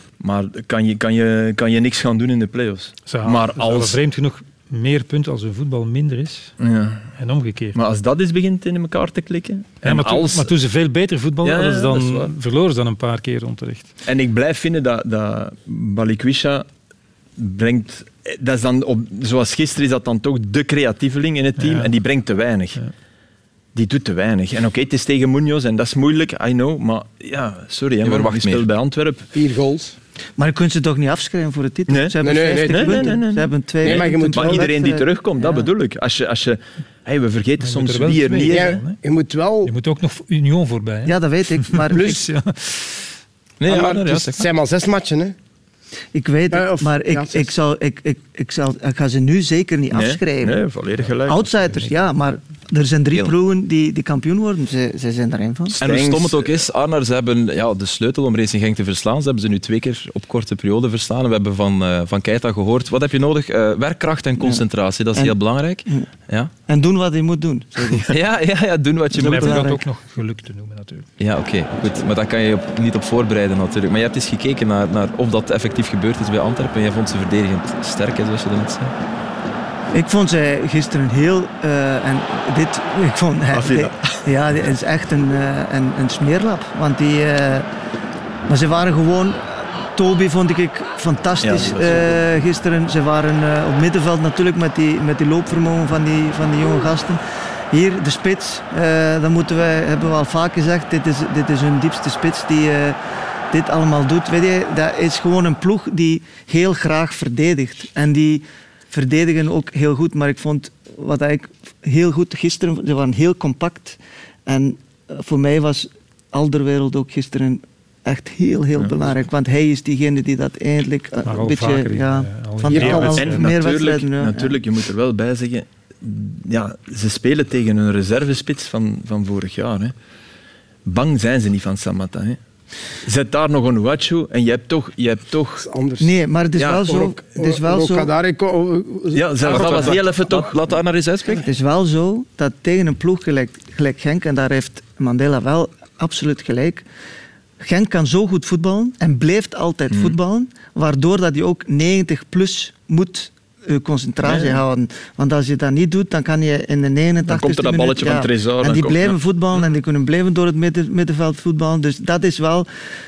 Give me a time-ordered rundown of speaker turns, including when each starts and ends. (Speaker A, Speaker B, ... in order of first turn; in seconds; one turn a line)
Speaker A: 0.2-4.0
Speaker B: 3.1-6.5
Speaker A: 6.6-7.0
Speaker B: 7.2-7.8
Speaker A: 7.8-10.5
Speaker B: 9.8-13.9
Speaker A: 11.4-12.3
Speaker A: 14.1-16.7
Speaker A: 17.4-22.8
Speaker B: 21.6-21.9
Speaker A: 23.8-29.3
Speaker C: 28.0-28.7
Speaker D: 29.3-29.9
Speaker E: 30.4-35.7
Speaker A: 31.9-38.8
Speaker D: 32.2-33.2
Speaker D: 33.8-34.7
Speaker B: 37.6-39.0
Speaker D: 38.5-39.7
Speaker B: 39.6-41.1
Speaker E: 41.0-42.2
Speaker B: 41.7-43.0
Speaker C: 43.6-44.5
Speaker D: 43.7-45.4
Speaker E: 46.1-50.6
Speaker D: 46.5-47.5
Speaker A: 49.9-51.5
Speaker E: 51.3-55.8
Speaker A: 55.7-56.5
Speaker C: 55.8-66.5
Speaker E: 65.2-66.1
Speaker E: 66.7-68.1
Speaker C: 68.1-69.7
Speaker B: 69.2-71.1
Speaker E: 69.3-69.8
Speaker C: 71.2-78.9
Speaker E: 79.9-87.7
Speaker A: 83.5-84.2
Speaker E: 88.5-97.2
Speaker A: 91.4-92.3
Speaker E: 97.7-103.0
Speaker E: 103.5-124.6
Speaker A: 118.8-119.1
Speaker B: 121.3-123.5
Speaker D: 122.7-123.2
Speaker A: 123.2-129.9
Speaker A: 130.9-132.4
Speaker A: 133.0-135.7
Speaker D: 135.6-136.1
Speaker E: 136.0-138.1
Speaker A: 136.6-137.1
Speaker D: 136.8-139.6
Speaker A: 139.1-140.6
Speaker E: 139.5-140.0
Speaker C: 139.5-141.4
Speaker E: 141.3-146.8
Speaker E: 147.6-162.7
Speaker A: 149.9-150.2
Speaker A: 154.2-154.6
Speaker A: 157.2-159.2